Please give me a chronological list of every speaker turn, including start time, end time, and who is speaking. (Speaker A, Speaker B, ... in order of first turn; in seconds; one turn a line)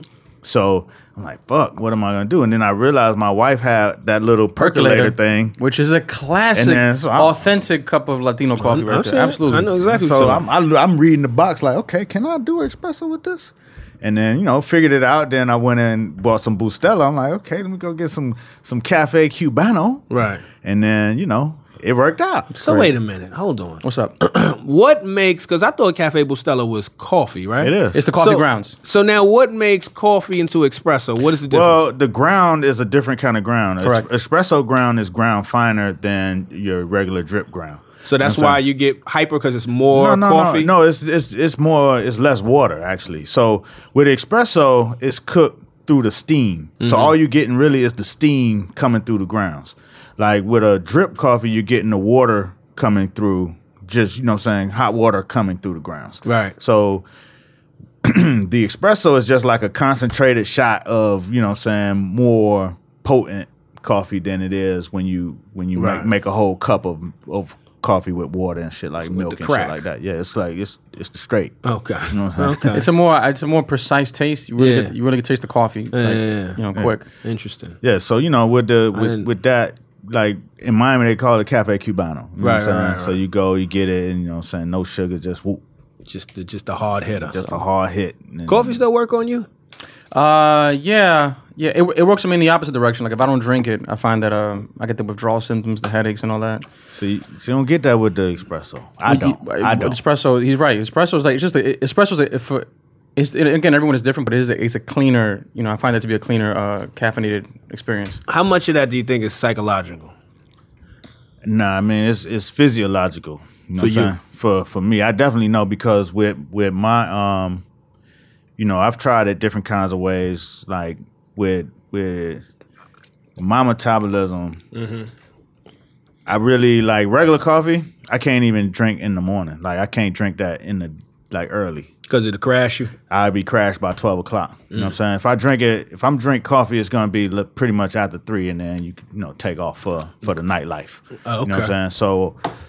Speaker A: 0.4-5.6
Speaker B: 4.6-9.7
Speaker A: 6.5-7.5
Speaker C: 8.6-10.4
Speaker A: 9.9-20.1
Speaker C: 20.1-20.4
Speaker A: 20.6-22.5
Speaker C: 22.6-31.8
Speaker B: 22.6-22.9
Speaker B: 23.8-24.1
Speaker A: 27.6-28.0
Speaker B: 27.9-28.8
Speaker A: 31.5-38.6
Speaker B: 33.8-34.1
Speaker C: 38.0-40.7
Speaker A: 39.9-57.1
Speaker C: 46.8-47.1
Speaker C: 56.2-56.5
Speaker A: 58.0-71.6
Speaker C: 65.8-66.1
Speaker C: 69.1-69.8
Speaker C: 71.6-72.9
Speaker A: 72.1-72.8
Speaker B: 72.7-77.0
Speaker C: 74.6-74.9
Speaker C: 75.9-76.6
Speaker C: 77.2-77.8
Speaker A: 77.8-85.6
Speaker C: 78.9-79.3
Speaker C: 82.4-83.2
Speaker C: 86.1-87.5
Speaker A: 87.2-88.8
Speaker C: 88.5-89.5
Speaker B: 90.1-96.6
Speaker A: 96.9-100.0
Speaker B: 99.1-108.2
Speaker C: 108.3-110.1
Speaker A: 111.4-117.6
Speaker C: 113.8-114.1
Speaker A: 118.6-122.4
Speaker A: 123.4-124.6
Speaker C: 124.7-125.1
Speaker A: 126.3-131.9
Speaker C: 132.1-132.9
Speaker A: 133.1-142.4
Speaker C: 141.2-141.7